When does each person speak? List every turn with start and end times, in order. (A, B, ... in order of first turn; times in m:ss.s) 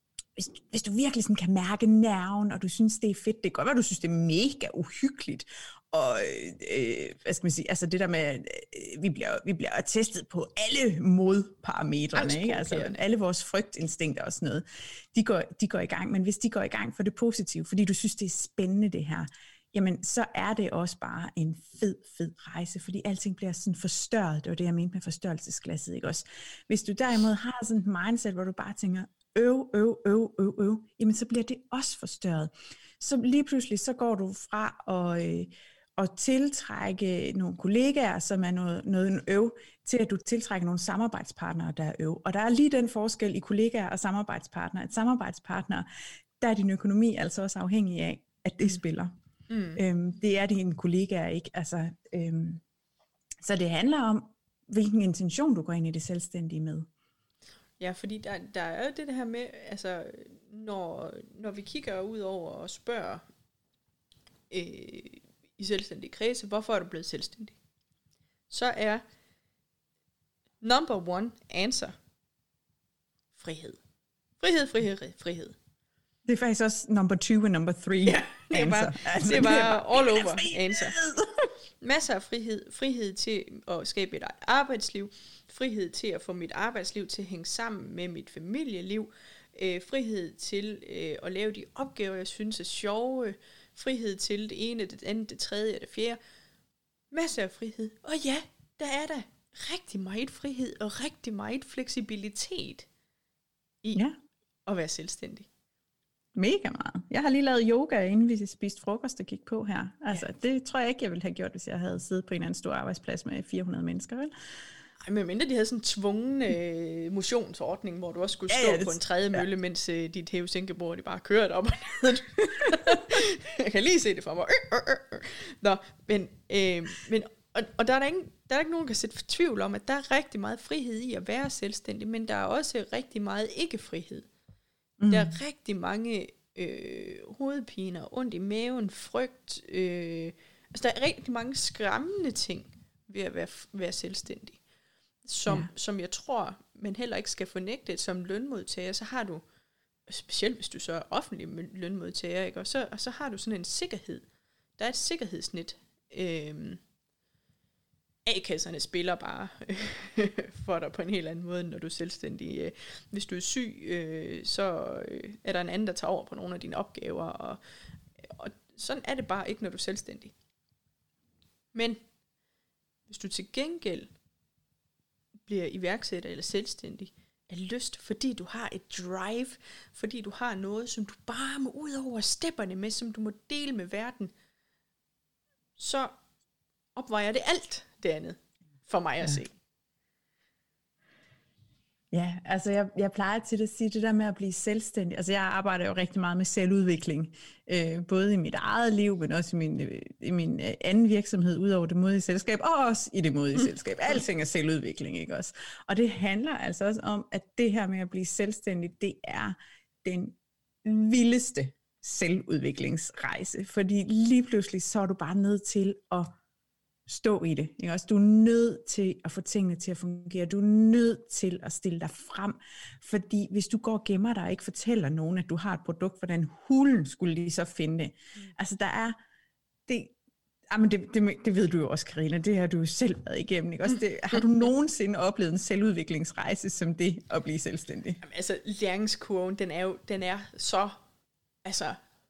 0:00.4-0:45.9 A
0:12.1-0:13.0 B
0:46.4-0:49.1 A
0:49.5-0:49.8 B
0:49.8-0:52.6 A
0:53.4-0:56.9 A
0:57.8-1:03.2 B
1:04.5-1:07.6 B
1:08.5-1:09.0 B
1:10.6-1:11.9 B
1:13.4-1:13.8 B
1:14.4-1:15.6 B
1:16.2-1:21.5 A
1:18.0-1:21.0 B
1:21.8-1:36.2 B
1:37.1-1:42.9 B
1:44.6-1:45.5 B
1:46.3-1:54.3 A
1:55.0-2:14.3 B
1:58.5-1:59.4 A
2:02.7-2:03.0 A
2:15.0-2:15.3 A
2:15.1-2:24.6 B
2:25.2-2:29.4 B
2:30.1-2:34.2 B
2:34.8-2:36.8 B
2:38.2-2:47.6 B
2:48.2-2:50.3 B
2:51.7-2:52.0 B
2:53.1-2:54.1 B
2:55.4-3:04.3 B
3:05.8-3:06.1 B
3:07.0-3:09.5 B
3:12.1-3:36.3 A
3:37.1-3:49.2 A
3:49.9-3:50.1 A
3:50.7-3:58.2 A
3:58.2-4:01.0 B
4:01.6-4:02.0 B